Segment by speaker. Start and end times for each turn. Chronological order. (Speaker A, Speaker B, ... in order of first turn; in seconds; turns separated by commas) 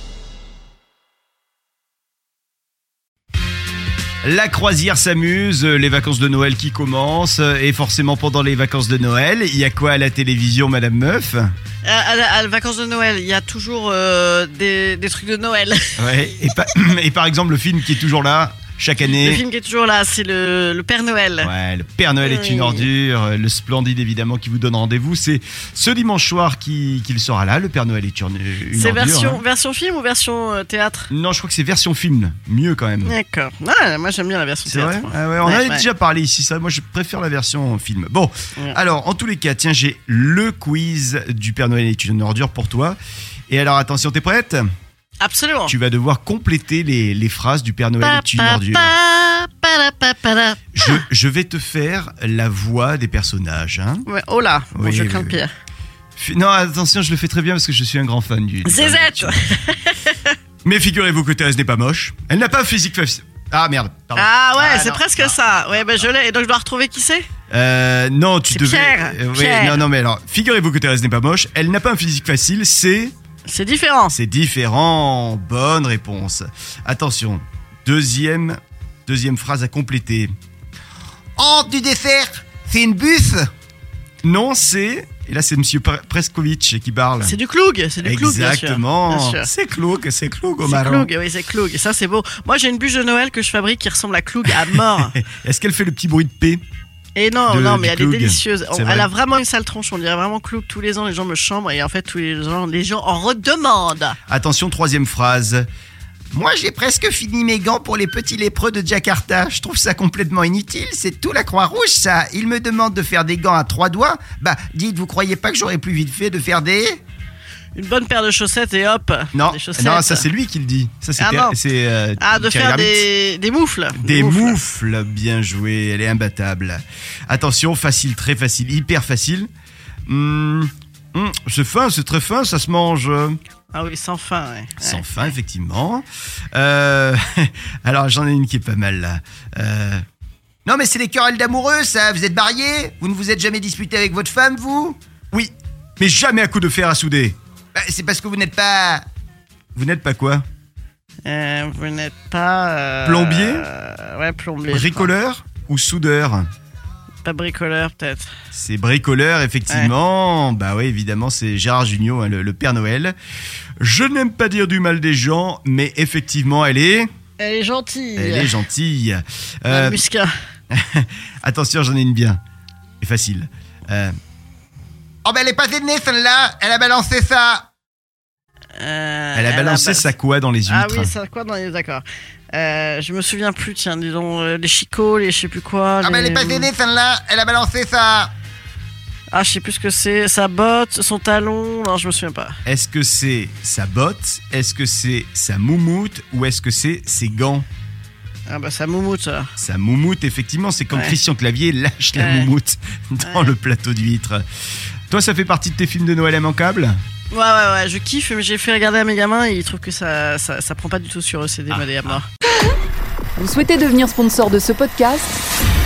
Speaker A: 4.2-11.5, Speaker B: 11.8-16.1, Speaker A: 16.0-19.4, Speaker B: 19.0-21.5, Speaker A: 21.4-29.4, Speaker B: 22.2-22.9, Speaker B: 28.7-31.1, Speaker A: 31.1-33.1, Speaker B: 33.0-35.9, Speaker A: 34.6-43.0, Speaker A: 43.5-44.7, Speaker B: 45.2-45.7, Speaker A: 45.7-48.9, Speaker B: 48.0-51.0, Speaker A: 50.7-54.0, Speaker B: 54.0-55.5, Speaker A: 54.7-55.4, Speaker A: 56.1-59.4, Speaker B: 58.6-60.3, Speaker A: 60.6-66.0, Speaker B: 64.1-67.2, Speaker A: 67.5-73.1, Speaker B: 68.5-69.9, Speaker B: 73.5-74.2, Speaker A: 74.1-80.3, Speaker A: 81.4-83.5, Speaker A: 84.2-87.4, Speaker B: 87.2-89.5, Speaker A: 88.0-91.1, Speaker B: 90.6-95.1, Speaker A: 94.5-96.6, Speaker B: 97.2-104.2, Speaker A: 97.5-99.1, Speaker A: 104.3-105.7, Speaker A: 106.3-117.0, Speaker B: 117.7-120.3, Speaker A: 119.3-123.0, Speaker B: 121.2-121.5, Speaker B: 122.2-124.7, Speaker A: 123.9-129.5, Speaker A: 130.1-133.4, Speaker B: 133.7-135.2, Speaker A: 134.8-140.0, Speaker A: 140.7-149.1, Speaker A: 149.7-150.4, Speaker B: 151.2-155.1, Speaker A: 153.0-153.7, Speaker A: 154.7-156.4, Speaker B: 157.2-158.3, Speaker A: 158.5-163.1, Speaker A: 163.8-167.1, Speaker B: 167.4-168.6, Speaker A: 168.2-170.0, Speaker B: 169.7-170.3, Speaker A: 170.7-172.4, Speaker A: 173.0-174.1, Speaker A: 175.2-177.7, Speaker B: 178.8-180.1, Speaker A: 179.3-181.1, Speaker B: 180.7-186.7, Speaker A: 186.0-188.3, Speaker B: 189.3-192.6, Speaker A: 192.6-197.6, Speaker B: 198.5-199.5, Speaker A: 199.6-204.4, Speaker B: 202.2-202.5, Speaker B: 203.2-203.5, Speaker A: 205.1-207.0, Speaker B: 207.3-212.3, Speaker C: 213.4-215.4